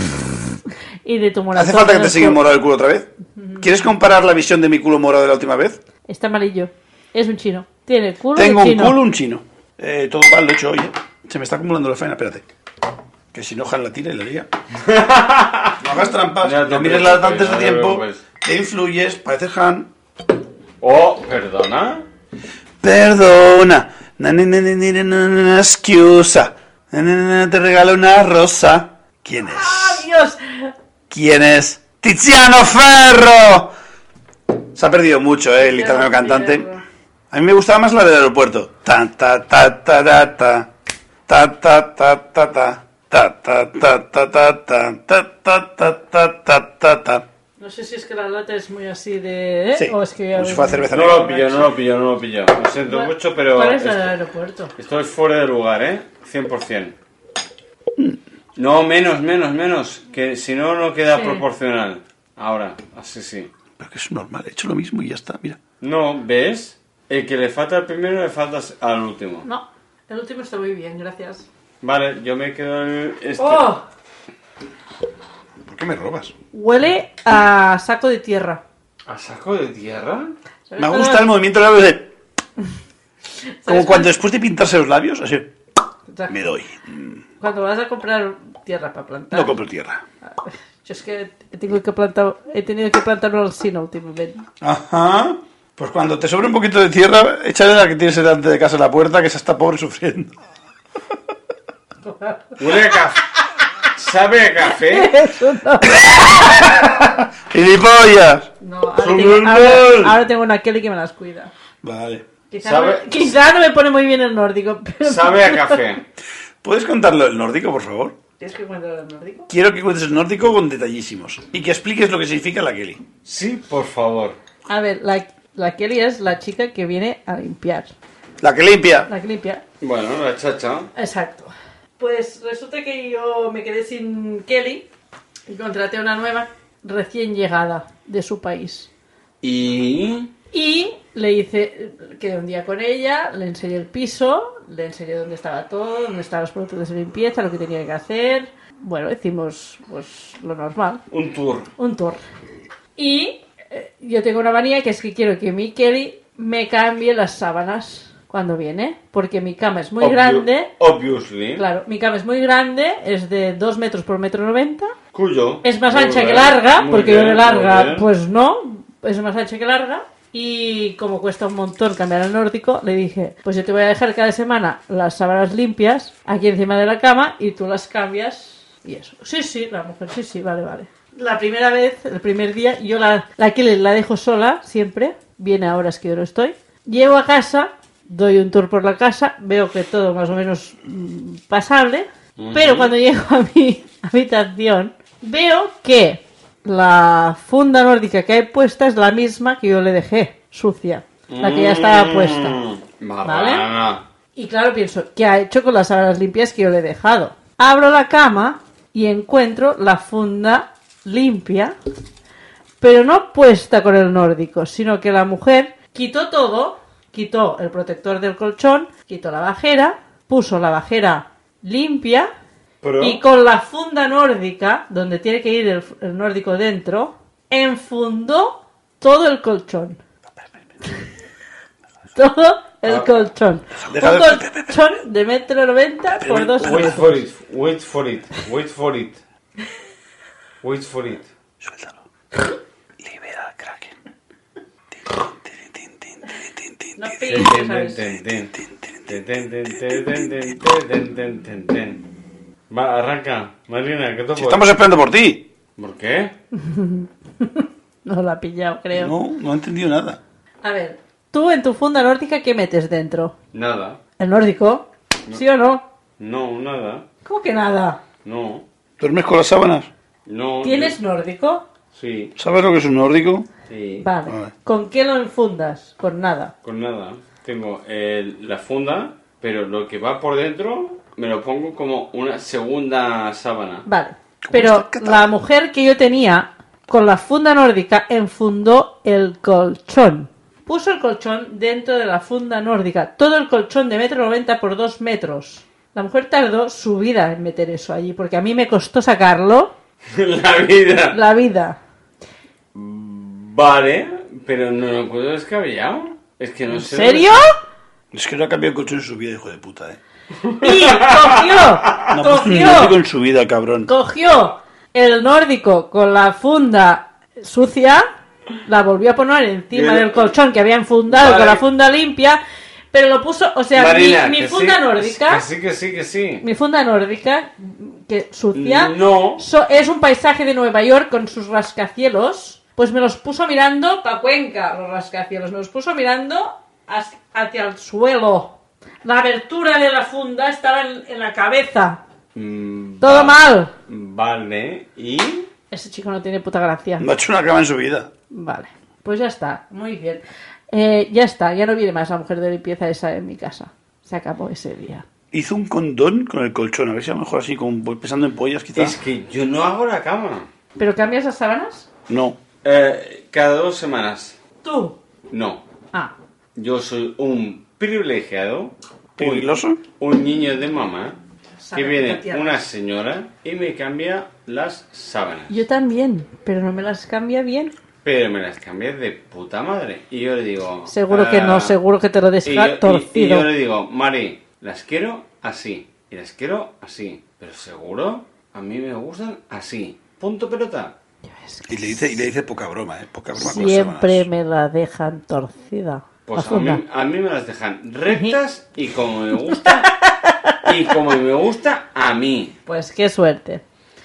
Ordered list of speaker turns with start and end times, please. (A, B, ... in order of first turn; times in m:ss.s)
0:01.0-0:02.4 A
0:01.5-0:05.8 B
0:03.4-0:03.7 A
0:06.1-0:09.0 A
0:08.3-0:12.4 B
0:13.3-0:14.5 B
0:14.7-0:15.8 C
0:15.8-0:19.9 B
0:16.4-0:18.2 C
0:20.8-0:22.0 C
0:22.8-0:30.0 B
0:29.4-0:30.7 A
0:31.1-0:33.7 B
0:34.7-0:36.6 B
0:35.6-0:36.8 A
0:37.3-0:40.7 B
0:41.3-0:47.2 B
0:47.6-0:51.7 A
0:49.8-0:51.4 B
0:50.9-0:54.1 C
0:52.9-0:54.7 A
0:54.8-0:57.0 C
0:58.6-1:03.5 C
1:01.1-1:01.4 A
1:03.8-1:05.6 B
1:05.8-1:09.5 C
1:09.4-1:11.4 A
1:11.8-1:13.7 C
1:13.4-1:13.8 A
1:15.6-1:16.3 B
1:16.5-1:18.6 A
1:19.1-1:20.3 C
1:20.7-1:21.3 A
1:20.8-1:22.1 B
1:23.6-1:24.1 A
1:23.6-1:25.5 B
1:26.3-1:27.2 B
1:27.4-1:29.5 A
1:29.3-1:30.0 B
1:30.2-1:34.4 A
1:34.6-1:40.3 B
1:42.0-1:42.6 A
1:42.6-1:43.2 C
1:43.9-1:45.1 C
1:44.7-1:46.8 A
1:45.9-1:48.5 B
1:48.6-1:51.5 A
1:49.0-1:50.2 C
1:51.8-1:52.2 B
1:52.5-1:55.8 A
1:52.6-1:53.1 C
1:55.0-1:56.0 C
1:56.6-1:58.2 B
1:58.4-1:59.5 A
1:59.5-2:03.0 B
2:03.2-2:04.4 C
2:04.7-2:07.9 A
2:08.4-2:09.1 B
2:09.1-2:09.6 A
2:09.8-2:10.9 C
2:10.9-2:14.8 A
2:15.5-2:18.9 A
2:19.4-2:20.3 C
2:20.5-2:31.0 A
2:31.1-2:31.7 C
2:31.8-2:32.2 A
2:33.0-2:40.7 A
2:40.0-2:41.6 C
2:41.6-2:44.9 A
2:45.1-2:48.1 C
2:45.6-3:22.6 A
3:12.4-3:12.9 C
3:21.3-3:24.0 C
3:23.2-3:23.7 A
3:24.3-3:31.8 A
3:32.8-3:42.3 A
3:42.8-3:43.2 C
3:43.0-3:50.0 A
3:52.2-3:56.9 A
3:53.8-3:54.8 B
3:56.2-3:57.2 B
3:56.6-3:59.2 C
4:00.6-4:01.3 C
4:01.6-4:02.0 B
4:03.0-4:03.9 B
4:05.0-4:07.0 B
4:07.0-4:08.1 A
4:07.3-4:08.6 C
4:08.6-4:10.5 B
4:09.1-4:12.0 C
4:12.7-4:14.7 C
4:14.4-4:15.5 B
4:15.8-4:16.3 C
4:16.5-4:19.1 A
4:18.9-4:20.2 B
4:20.6-4:23.3 A
4:23.5-4:24.0 C
4:24.2-4:25.8 A
4:26.2-4:27.0 C
4:27.2-4:28.0 A
4:28.2-4:28.6 C
4:29.0-4:29.9 B
4:30.2-4:31.0 C
4:30.6-4:31.6 A
4:31.9-4:32.3 C
4:32.4-4:33.5 B
4:33.7-4:34.1 C
4:34.0-4:36.5 A
4:34.3-4:34.5 B
4:36.6-4:43.8 C
4:43.8-4:59.7 A
4:44.4-4:45.3 B
5:00.1-5:01.2 C
5:01.1-5:01.8 A
5:02.7-5:07.3 C
5:06.7-5:07.5 A
5:08.1-5:10.0 B
5:10.4-5:12.1 C
5:10.6-5:13.0 A
5:12.1-5:13.9 B
5:13.9-5:18.0 A
5:18.6-5:22.4 A
5:19.7-5:20.3 C
5:21.1-5:21.6 C
5:22.9-5:25.4 A
5:23.7-5:26.4 C
5:26.4-5:42.0 A
5:28.5-5:29.4 C
5:42.3-5:45.5 C
5:43.0-5:43.7 A
5:45.7-5:47.1 A
5:47.0-5:48.1 B
5:48.3-5:55.0 A
5:55.3-5:59.0 B
5:58.7-6:00.5 C
6:00.8-6:01.9 A
6:02.1-6:02.4 B
6:02.6-6:04.4 C
6:04.6-6:05.0 A
6:05.3-6:05.6 C
6:06.5-6:11.2 C
6:09.2-6:09.8 B
6:11.6-6:12.6 A
6:11.7-6:15.6 C
6:15.5-6:17.7 A
6:18.0-6:21.8 C
6:20.9-6:23.5 A
6:22.4-6:30.9 C
6:31.2-6:32.2 A
6:31.7-6:34.3 B
6:33.4-6:36.8 A
6:36.2-6:39.9 C
6:39.5-6:40.5 A
6:40.6-6:42.6 C
6:42.6-6:43.6 A